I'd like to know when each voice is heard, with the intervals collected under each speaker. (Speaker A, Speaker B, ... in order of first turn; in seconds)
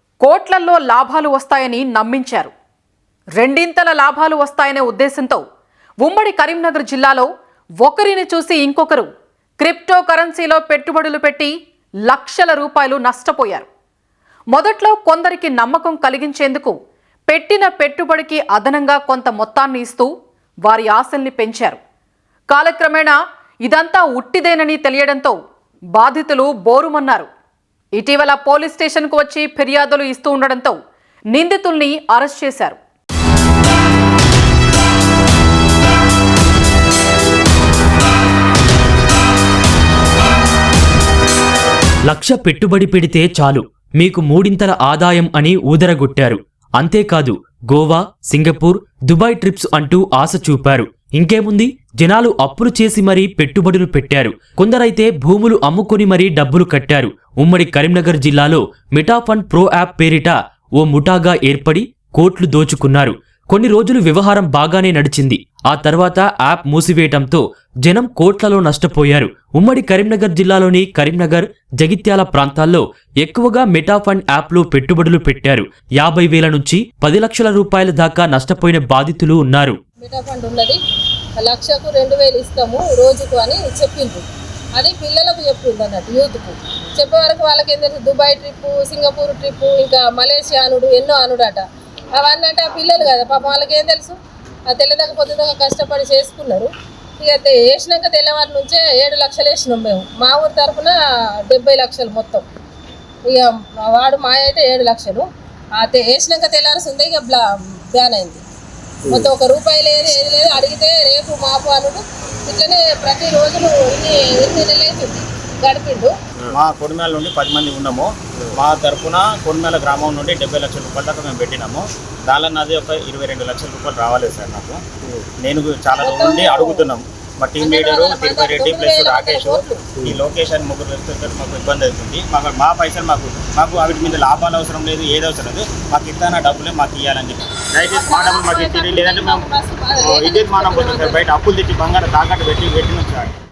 Speaker A: 0.2-2.5, 3.4-5.4, 6.0-7.3, 7.8-9.1, 9.6-11.5, 12.1-13.7, 14.5-16.7, 17.3-20.1, 20.6-21.8, 22.5-25.4, 25.9-27.3, 27.9-30.8, 31.3-32.8
Speaker B: 42.0-79.8
Speaker C: 80.0-80.8, 81.4-84.2, 84.7-94.2, 94.7-100.9, 101.5-102.4, 103.3-108.4, 109.1-116.1, 126.0-126.8, 127.6-129.8, 137.8-141.2
Speaker D: 116.5-124.8, 125.4-139.5, 140.0-143.3